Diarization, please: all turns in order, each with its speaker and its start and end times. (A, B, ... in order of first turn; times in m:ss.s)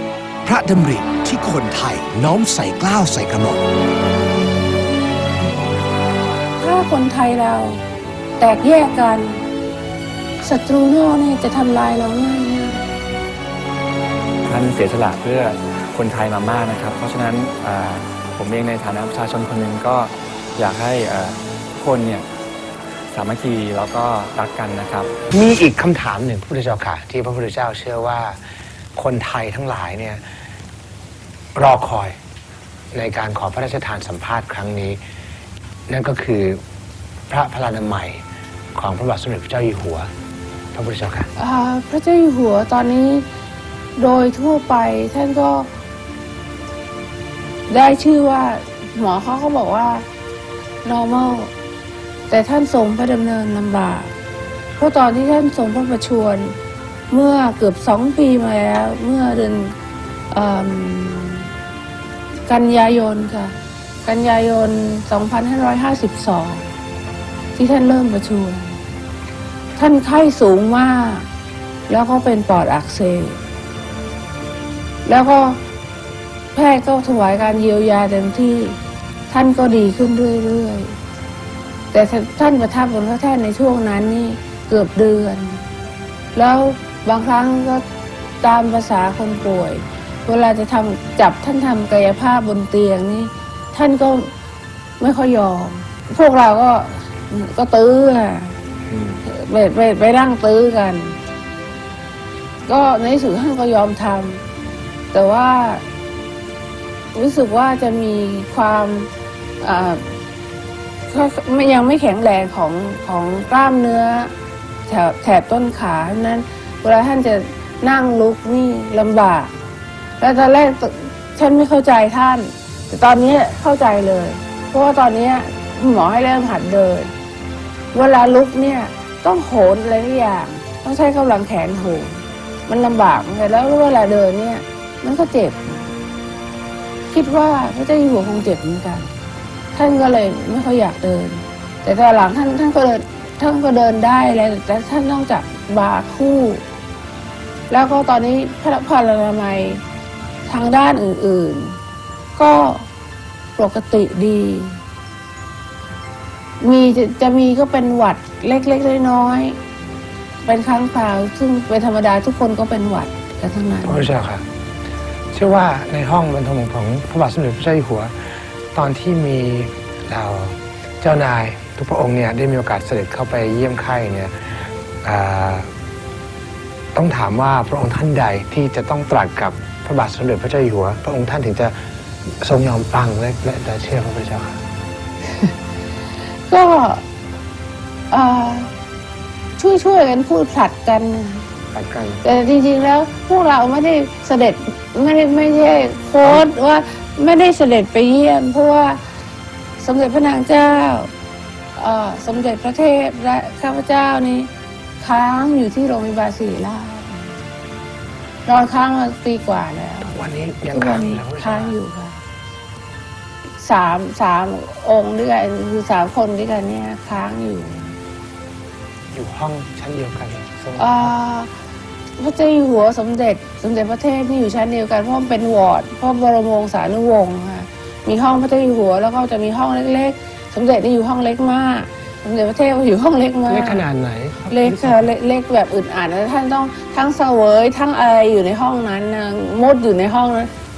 0:00.4-0:03.6 A
0:06.6-0:07.8 B
0:08.4-0:09.4 B
0:10.4-0:12.9 B
0:14.4-0:22.2 C
0:23.1-0:25.1 C
0:25.3-0:28.4 D
0:29.0-0:30.2 D
0:31.6-0:32.2 D
0:32.9-0:35.0 D
0:35.9-0:36.6 D
0:37.3-0:38.2 D
0:38.7-0:40.1 D
0:40.7-0:41.3 D
0:41.4-0:43.2 B
0:44.0-0:45.7 B
0:47.7-0:50.0 B
0:50.8-0:51.5 B
0:52.3-0:54.1 B
0:54.8-0:56.6 B
0:57.1-0:59.7 B
1:00.3-1:01.5 B
1:02.5-1:06.7 B
1:07.5-1:08.8 B
1:09.8-1:11.3 B
1:11.9-1:13.4 B
1:15.0-1:15.6 B
1:16.5-1:18.8 B
1:19.3-1:21.0 B
1:21.9-1:25.6 B
1:26.3-1:27.8 B
1:28.4-1:34.3 B
1:35.0-1:38.6 B
1:38.9-1:39.2 D
1:39.2-1:41.2 B
1:42.7-1:44.4 B
1:45.1-1:45.8 B
1:47.1-1:50.0 B
1:51.1-1:54.3 B
1:54.9-1:59.5 B
2:00.2-2:07.1 B
2:07.9-2:15.6 B
2:17.1-2:19.1 B
2:19.7-2:26.6 B
2:27.7-2:29.8 B
2:30.4-2:31.8 B
2:32.4-2:32.8 B
2:33.6-2:34.8 B
2:36.6-2:39.6 B
2:40.4-2:44.1 B
2:43.8-2:44.4 D
2:45.3-2:48.1 D
2:48.7-2:54.4 D
2:55.0-2:55.7 D
2:56.9-3:01.7 D
3:02.4-3:04.6 D
3:06.5-3:07.0 B
3:08.1-3:08.7 B
3:09.6-3:11.5 B
3:11.7-3:12.2 D
3:12.2-3:19.0 B
3:19.8-3:21.1 B
3:21.8-3:27.4 B
3:28.4-3:30.1 B
3:30.0-3:31.7 D
3:30.7-3:32.2 B
3:33.6-3:38.0 B
3:39.1-3:41.1 D
3:40.8-3:41.5 B
3:42.2-3:53.8 B
3:53.5-3:55.1 D
3:54.5-4:00.5 B